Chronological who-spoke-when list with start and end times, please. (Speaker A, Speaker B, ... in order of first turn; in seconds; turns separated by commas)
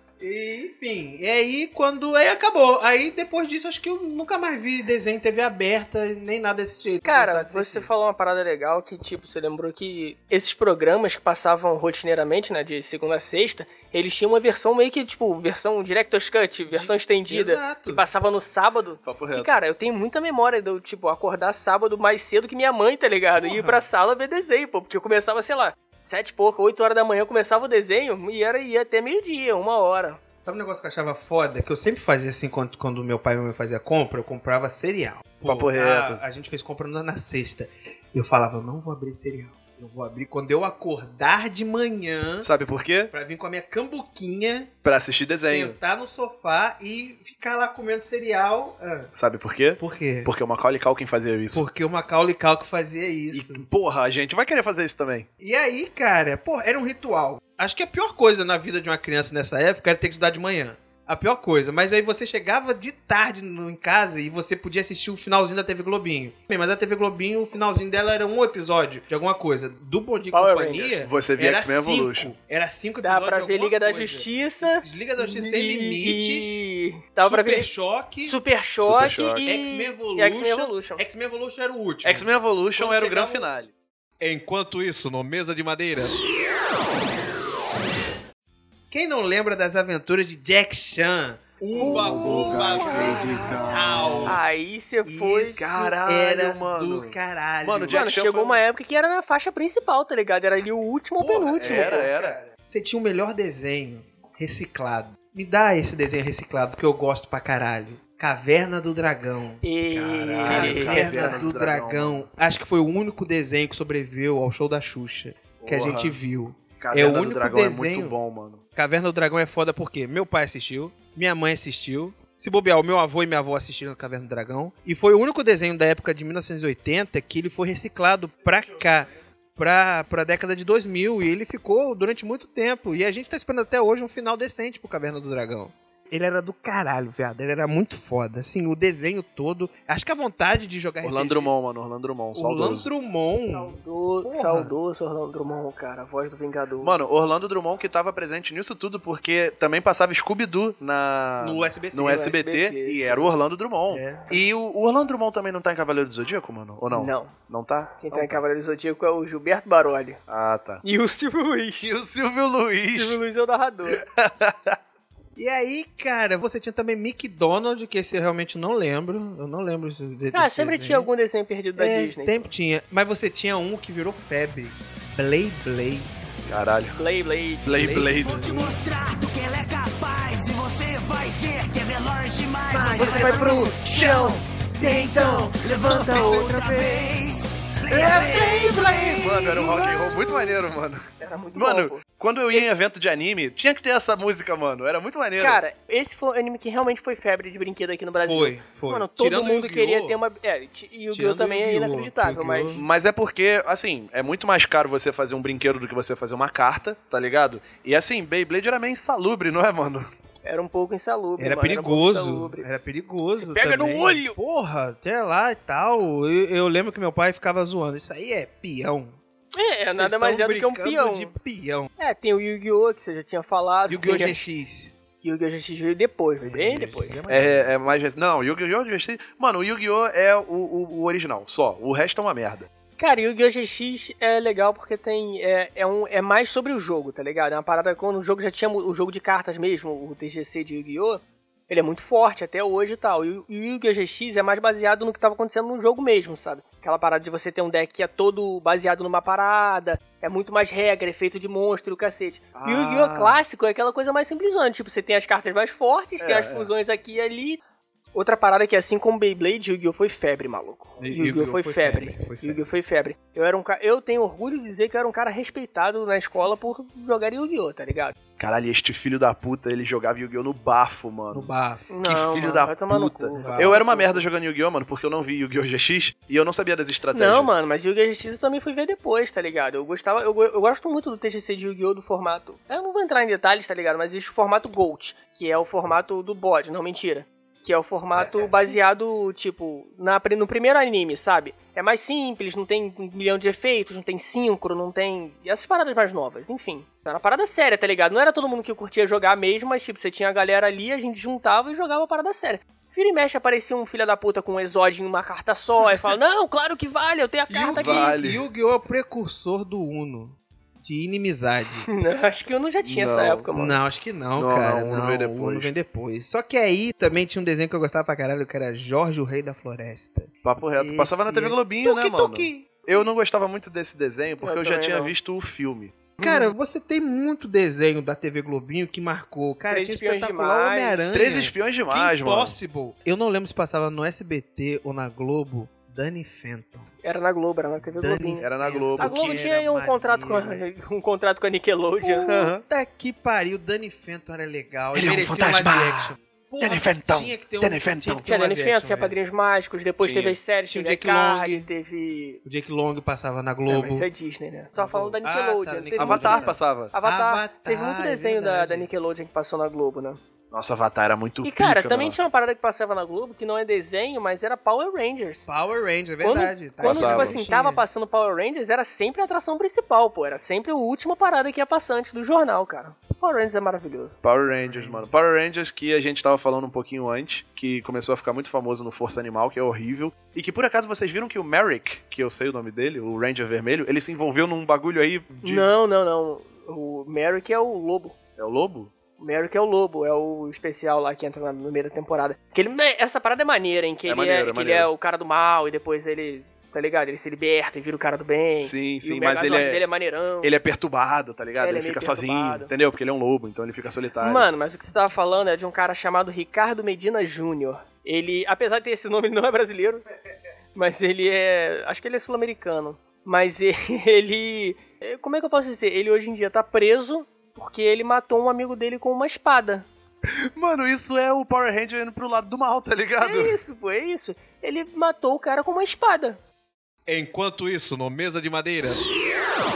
Speaker A: 0.2-7.9, Speaker B: 7.0-30.2, Speaker A: 16.7-18.1, Speaker C: 19.1-19.5, Speaker A: 23.4-23.9, Speaker A: 30.4-42.5, Speaker C: 35.5-36.2, Speaker C: 42.4-43.1, Speaker A: 43.1-44.7, Speaker C: 44.8-45.8, Speaker A: 45.3-49.1, Speaker C: 49.1-51.6, Speaker A: 49.8-50.3, Speaker A: 51.5-53.6, Speaker C: 53.3-55.3, Speaker A: 55.4-76.6, Speaker B: 70.3-71.0, Speaker C: 71.0-72.3, Speaker B: 73.0-77.7, Speaker A: 77.2-78.4, Speaker B: 78.2-81.0, Speaker C: 78.8-79.5, Speaker A: 79.5-83.5, Speaker C: 82.0-83.7, Speaker A: 84.2-86.2, Speaker A: 88.9-94.4, Speaker B: 91.8-93.7, Speaker C: 92.0-94.4, Speaker D: 92.7-93.1, Speaker B: 94.2-95.9, Speaker A: 95.0-98.0, Speaker C: 95.6-98.6, Speaker B: 97.9-102.1, Speaker A: 101.2-118.2, Speaker C: 101.6-102.4, Speaker B: 109.6-111.3, Speaker C: 110.2-112.3, Speaker C: 115.6-116.2, Speaker C: 116.8-118.6, Speaker A: 118.8-141.5, Speaker C: 141.0-142.9, Speaker A: 142.3-144.7, Speaker B: 143.4-147.0, Speaker C: 146.8-158.4, Speaker A: 151.4-152.2, Speaker B: 152.0-153.3, Speaker A: 153.9-154.4, Speaker B: 156.9-157.3, Speaker B: 158.0-160.2, Speaker C: 160.3-160.8, Speaker B: 160.8-161.9, Speaker C: 161.8-163.2, Speaker B: 162.9-164.0, Speaker C: 163.9-164.8, Speaker A: 165.4-171.1, Speaker B: 170.3-172.5, Speaker A: 171.8-176.2, Speaker C: 176.5-177.0, Speaker B: 177.0-178.1, Speaker C: 177.7-178.5, Speaker D: 178.2-189.7, Speaker A: 182.7-183.7, Speaker B: 182.9-186.9, Speaker C: 186.0-186.5, Speaker A: 186.1-186.4, Speaker A: 187.9-188.7, Speaker C: 187.9-195.6, Speaker B: 188.1-190.5, Speaker B: 191.2-192.7, Speaker B: 195.4-202.8, Speaker A: 198.2-200.2, Speaker A: 201.1-202.8, Speaker C: 202.8-210.1, Speaker B: 210.4-212.7, Speaker A: 211.4-219.2, Speaker B: 213.3-214.4, Speaker B: 219.6-221.3, Speaker A: 220.0-221.9, Speaker B: 222.0-224.4, Speaker A: 223.9-224.9, Speaker B: 225.2-227.2, Speaker A: 226.4-227.7, Speaker C: 227.3-232.7, Speaker B: 233.0-257.6, Speaker C: 252.6-253.4, Speaker C: 256.2-256.7, Speaker B: 258.1-268.2, Speaker C: 261.0-261.2, Speaker A: 261.1-262.6, Speaker C: 268.4-271.5, Speaker A: 271.3-271.9, Speaker B: 271.9-274.2, Speaker C: 272.0-277.5, Speaker A: 273.3-273.8, Speaker B: 277.1-308.2, Speaker A: 307.5-311.9, Speaker C: 307.7-308.4, Speaker B: 311.9-313.8, Speaker C: 312.8-313.5, Speaker A: 313.6-322.8, Speaker C: 314.4-315.7, Speaker C: 320.4-326.0, Speaker B: 324.4-325.1, Speaker A: 326.2-336.9, Speaker B: 326.2-326.5, Speaker B: 329.7-331.1, Speaker C: 331.1-332.6, Speaker B: 337.0-342.3, Speaker A: 337.8-340.6, Speaker C: 338.4-339.3, Speaker A: 342.0-349.1, Speaker C: 342.3-342.6, Speaker C: 344.9-348.2, Speaker B: 348.2-352.4, Speaker C: 350.0-350.4, Speaker A: 350.7-351.7, Speaker A: 352.4-354.1, Speaker B: 353.7-360.2, Speaker A: 354.8-358.9, Speaker C: 356.0-356.9, Speaker C: 360.5-362.2, Speaker B: 361.4-365.5, Speaker A: 365.5-367.8, Speaker B: 366.2-374.2, Speaker C: 366.8-367.4, Speaker C: 374.2-385.7, Speaker A: 374.7-375.1, Speaker B: 385.4-388.2, Speaker C: 388.4-388.9, Speaker B: 389.2-400.5, Speaker C: 394.1-394.9, Speaker C: 398.6-399.9, Speaker C: 400.4-404.5, Speaker B: 401.6-402.7, Speaker B: 404.2-410.1, Speaker B: 410.8-419.9, Speaker C: 420.3-423.6, Speaker B: 423.2-426.4, Speaker A: 427.1-429.0